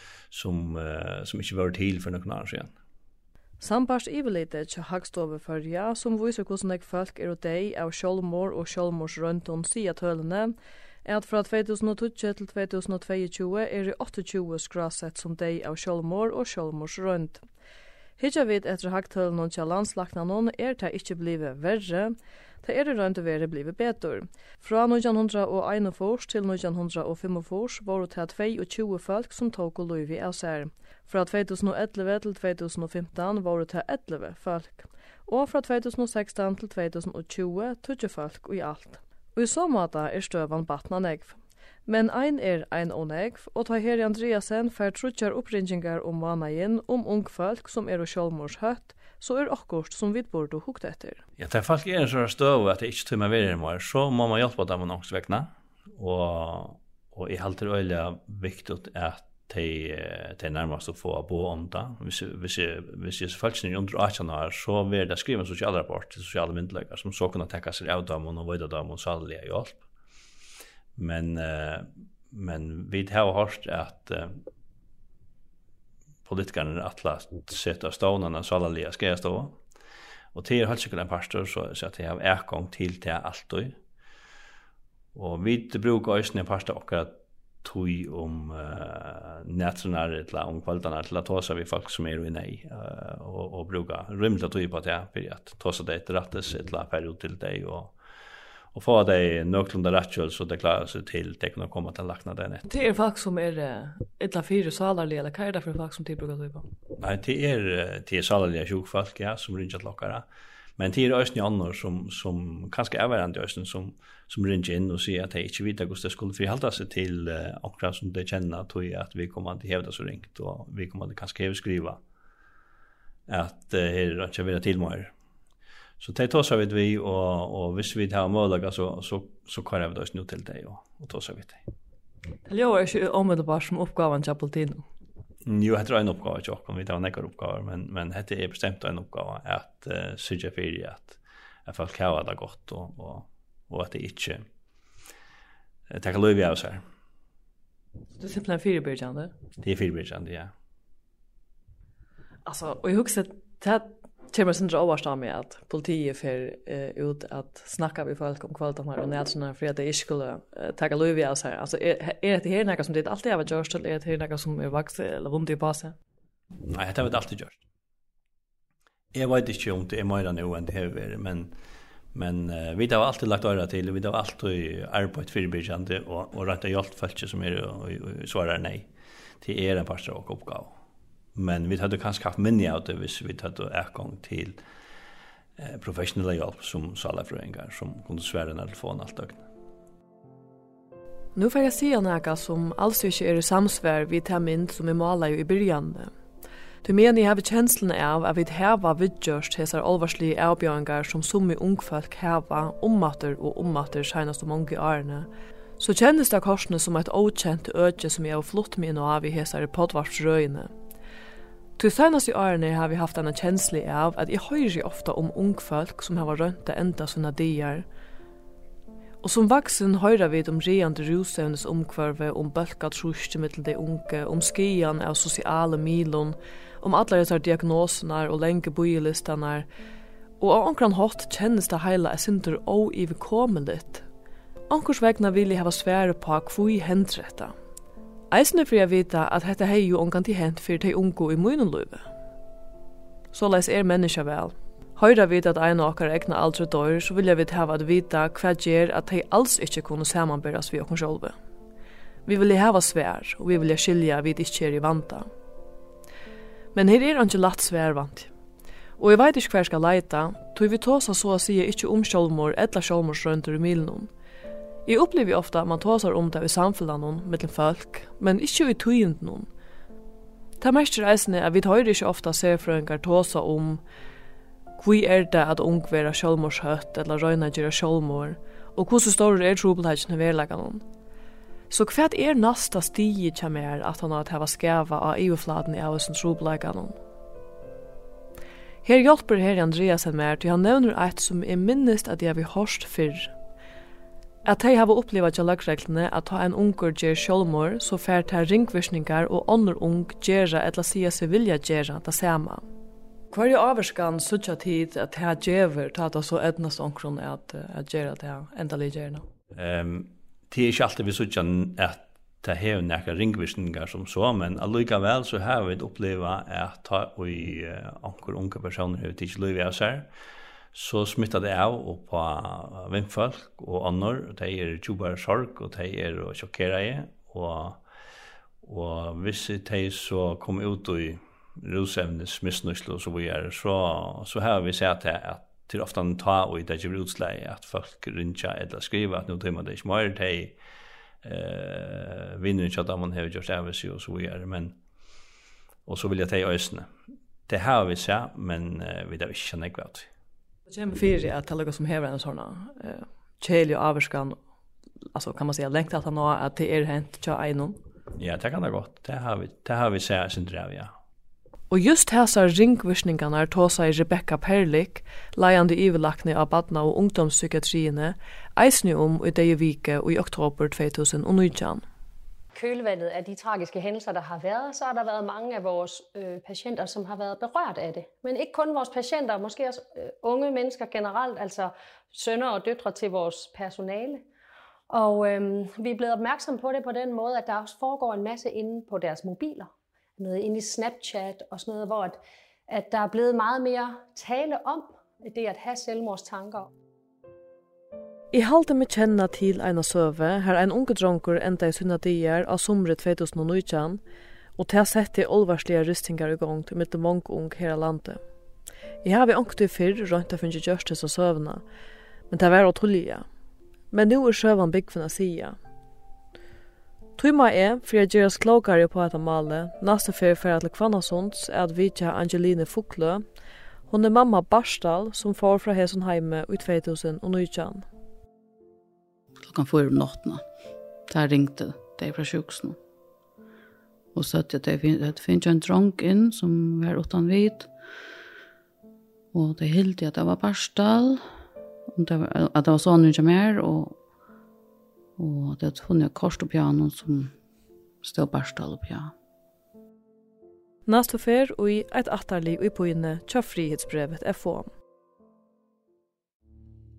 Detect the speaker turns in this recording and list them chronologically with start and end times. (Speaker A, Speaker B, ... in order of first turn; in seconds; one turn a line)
Speaker A: 0.3-2.7
Speaker B: 3.6-17.4
Speaker B: 18.2-51.2
Speaker A: 51.4-69.8
Speaker A: 71.0-74.3
Speaker A: 76.2-79.6
Speaker A: 80.3-83.8
Speaker A: 85.1-97.9
Speaker A: 98.7-102.6
Speaker B: 102.7-106.7
Speaker A: 107.0-110.2
Speaker A: 110.8-122.0
Speaker A: 123.3-125.1
Speaker A: 126.0-131.6
Speaker B: 132.5-134.8
Speaker A: 135.4-144.4
Speaker A: 145.9-146.8
Speaker B: 148.2-149.3
Speaker A: 149.6-150.5
Speaker B: 152.4-165.9
Speaker A: 166.6-167.6
Speaker A: 169.1-171.5
Speaker A: 172.1-178.9
Speaker A: 179.4-180.7
Speaker A: 181.3-184.6
Speaker A: 185.6-189.4
Speaker B: 191.3-196.1
Speaker B: 196.8-210.7
Speaker B: 211.8-217.8
Speaker B: 219.2-229.7
Speaker B: 230.4-234.0
Speaker B: 234.7-237.5
Speaker B: 238.3-242.1
Speaker B: 243.3-251.3
Speaker B: 252.2-255.2
Speaker B: 256.7-258.3
Speaker B: 259.0-264.1
Speaker B: 264.9-269.5
Speaker B: 270.6-273.8
Speaker B: 274.8-280.8
Speaker B: 281.7-287.0
Speaker B: 288.8-293.3
Speaker B: 294.4-302.6
Speaker B: 303.3-309.2
Speaker A: 309.5-320.1
Speaker A: 320.7-327.8
Speaker A: 328.6-340.6
Speaker A: 341.2-344.8
Speaker A: 345.9-346.9
Speaker A: 347.5-350.1
Speaker B: 350.7-354.4
Speaker B: 355.1-357.8
Speaker A: 358.2-360.9
Speaker B: 361.7-371.8
Speaker C: 372.5-384.2
Speaker C: 384.9-396.7
Speaker B: 398.3-404.0
Speaker B: 404.6-408.2
Speaker B: 409.0-411.6
Speaker B: 412.3-413.2
Speaker B: 413.9-415.6
Speaker B: 417.2-423.2
Speaker B: 423.9-427.9
Speaker D: 429.4-430.4
Speaker D: 431.1-432.8
Speaker D: 434.1-437.7
Speaker D: 439.3-441.2
Speaker D: 441.9-443.9
Speaker D: 445.2-447.3
Speaker D: 448.0-449.1
Speaker B: 450.9-454.7